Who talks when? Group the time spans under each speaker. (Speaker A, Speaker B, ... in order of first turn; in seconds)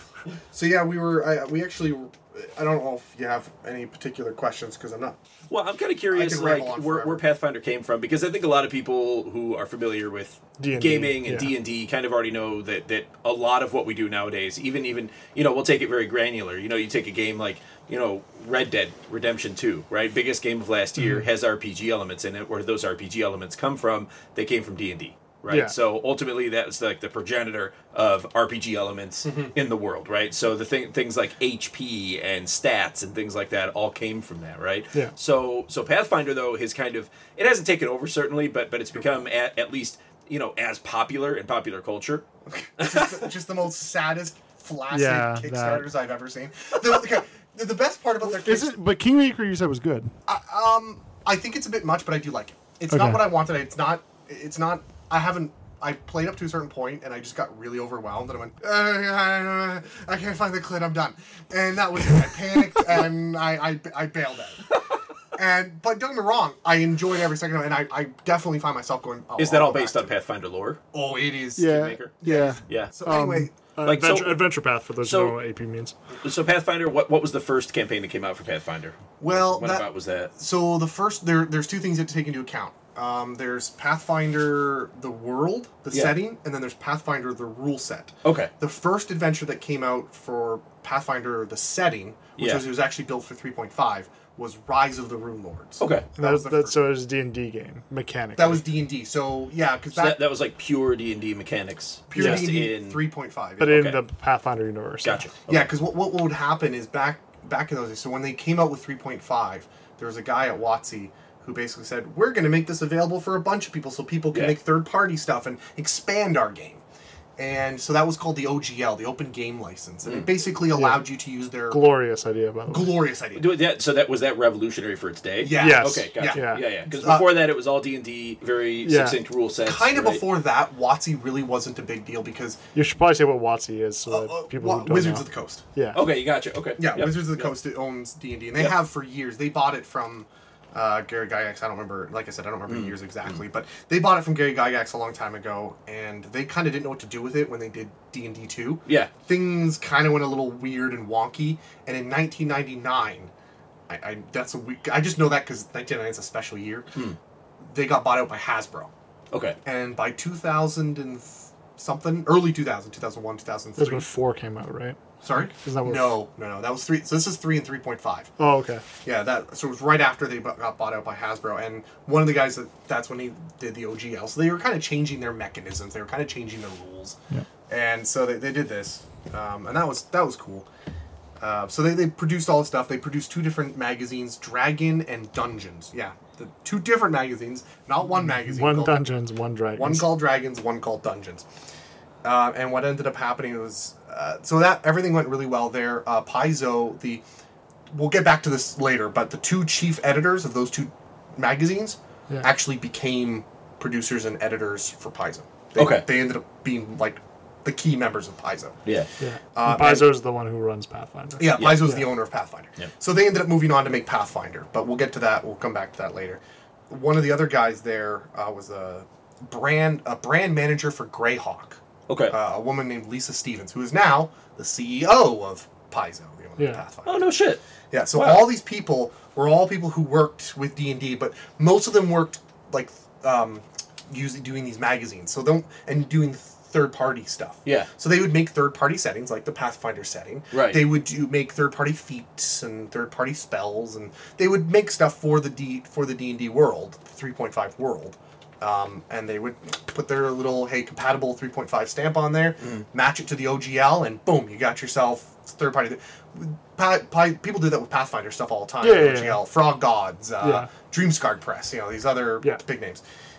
Speaker A: 0.5-5.2, 6.1-7.2, 29.2-29.5, 42.5-48.8, 50.3-64.7, 65.3-70.1, 70.9-73.5, 79.2-96.9, 98.3-100.2, 102.1-103.8, 105.5-116.8, 117.4-121.8, 122.7-123.5, 125.4-127.4, 129.6-132.6, 134.1-135.6, 136.8-153.3, 153.9-156.9, 157.6-158.9, 159.6-164.1, 165.2-168.3, 169.0-177.2, 177.7-180.7, 181.4-189.0, 189.8-191.4, 192.2-197.2, 197.9-208.8, 209.5-210.2, 211.4-227.3, 227.9-263.0
Speaker B: 5.5-42.2, 42.8-43.3, 69.4-70.8, 71.7-72.1, 72.7-72.9, 73.8-75.3, 76.2-80.3, 85.9-86.2, 88.2-88.5, 92.4-92.7, 95.8-96.1, 99.9-103.0, 103.7-104.0, 105.0-105.7, 120.0-120.3, 123.3-130.2, 135.9-137.5, 142.7-142.9, 148.8-149.1, 159.3-159.6, 205.8-206.1, 211.6-211.9, 222.1-222.3, 227.0-227.6, 228.1-228.5, 240.5-240.8
Speaker C: 10.6-11.5, 21.0-21.2, 25.5-25.7, 44.9-45.9, 48.2-50.1, 52.9-53.3, 71.6-75.9, 96.2-98.7, 102.1-102.5, 103.6-105.2, 120.7-121.1, 121.7-123.0, 125.5-126.7, 128.8-129.2, 132.7-136.0, 163.8-166.2, 168.4-168.8, 188.2-190.1, 209.2-212.1, 226.6-226.8, 258.8-259.4, 260.4-260.7